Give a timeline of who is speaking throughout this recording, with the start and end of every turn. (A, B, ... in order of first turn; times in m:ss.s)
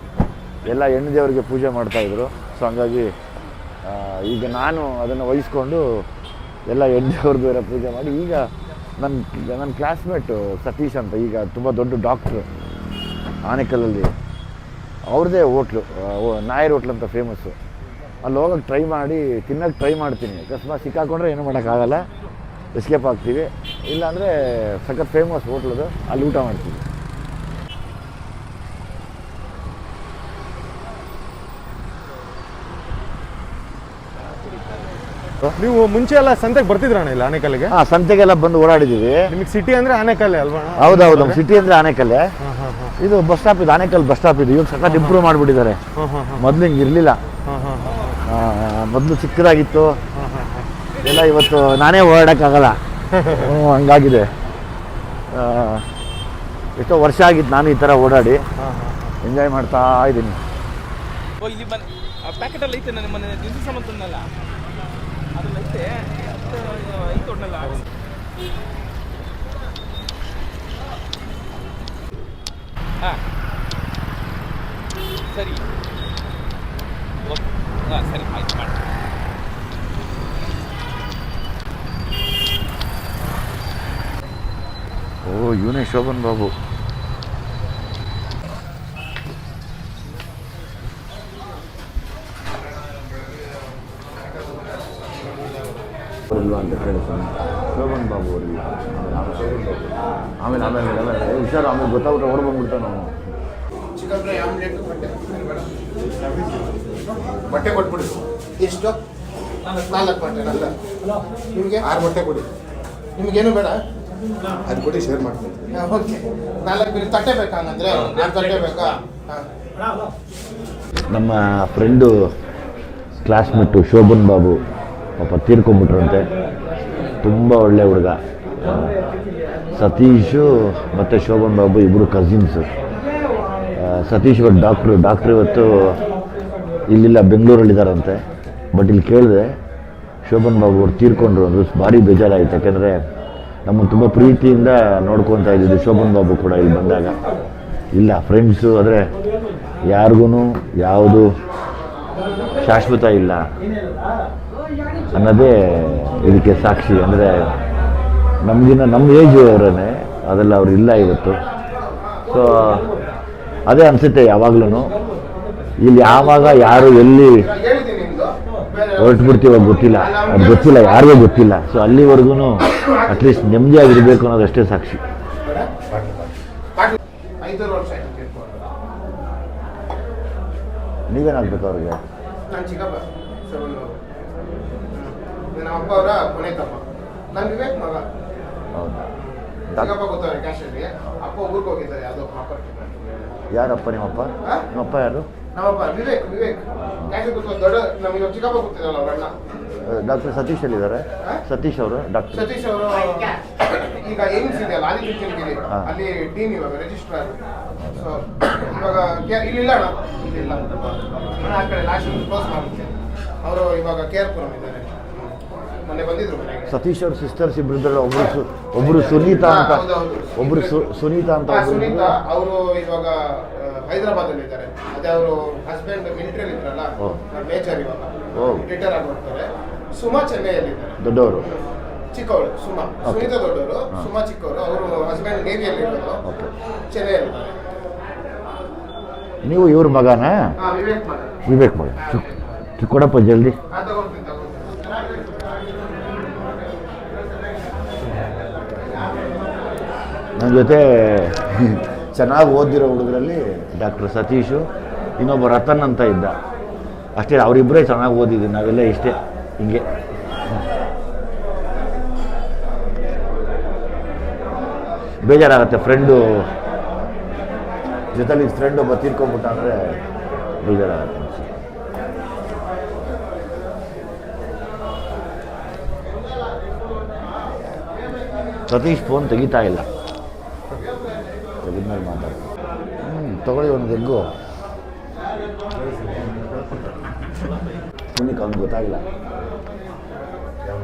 0:00.6-0:03.1 A
0:03.8-0:06.1 A
0:06.7-0:12.5 A
0:13.4-0:14.1 A
0:15.1-0:17.6 A
0:18.2-0:22.0 A
0:22.7-0:26.8 A
0:35.6-0:37.8 B
0:37.7-0:39.3 A
0:39.3-0:41.4 B
0:40.8-0:42.3 A
0:42.4-0:43.0 B
0:43.0-0:45.8 A
0:44.9-0:45.2 B
0:46.0-0:46.5 B
0:46.4-0:47.2 A
0:47.5-0:48.1 B
0:48.2-0:50.0 A
0:50.2-0:50.7 B
0:51.0-0:54.3 A
0:53.2-0:53.5 B
0:55.3-0:55.9 A
0:56.8-0:58.4 A
0:58.6-0:59.1 B
0:59.2-1:00.4 A
1:01.4-1:04.3 C
1:05.4-1:07.8 C
1:15.3-1:15.6 C
1:17.3-1:18.8 C
1:25.2-1:26.5 A
1:34.3-1:35.8 D
1:36.3-1:39.9 A
1:40.4-1:43.1 A
1:44.0-1:45.8 D
1:47.5-1:49.0 D
1:49.8-1:50.7 D
1:51.5-1:52.5 D
1:53.2-1:53.8 D
1:54.7-1:59.5 D
1:57.9-1:58.8 C
2:01.1-2:02.1 A
2:03.2-2:04.6 A
2:05.2-2:06.3 A
2:07.2-2:09.0 A
2:09.7-2:12.7 A
2:13.8-2:16.0 A
2:16.9-2:18.2 A
2:18.7-2:19.6 A
2:20.2-2:23.0 A
2:23.7-2:27.2 A
2:27.9-2:29.1 A
2:29.8-2:31.3 A
2:32.6-2:33.4 A
2:35.1-2:37.6 A
2:38.4-2:41.4 A
2:42.3-2:42.9 A
2:43.7-2:44.9 A
2:45.8-2:47.5 A
2:46.2-2:51.3 D
2:49.0-2:55.0 A
2:52.8-2:53.4 D
2:55.4-2:55.7 D
2:56.8-2:58.7 D
3:01.1-3:02.0 A
3:02.5-3:04.0 D
3:04.9-3:08.1 D
3:08.7-3:09.1 A
3:09.2-3:13.3 D
3:09.7-3:10.0 A
3:13.5-3:15.3 A
3:15.5-3:19.3 D
3:19.8-3:22.5 A
3:22.3-3:27.4 D
3:27.9-3:36.7 D
3:36.7-3:39.9 A
3:38.8-3:40.8 D
3:40.4-3:42.1 A
3:41.5-3:56.2 D
3:48.4-3:48.7 A
3:51.0-3:51.4 A
3:53.0-3:53.4 A
3:56.2-3:56.5 A
3:56.9-3:57.6 D
3:59.4-4:00.6 A
4:00.6-4:01.3 D
4:01.4-4:02.3 A
4:02.0-4:02.3 D
4:02.8-4:03.6 A
4:03.7-4:05.4 D
4:10.4-4:16.4 A
4:17.2-4:19.8 A
4:25.2-4:26.5 A
4:28.1-4:30.0 A
4:30.6-4:31.5 A
4:38.7-4:39.9 A
4:41.6-4:42.5 A
4:43.0-4:44.3 A
4:48.1-4:49.0 A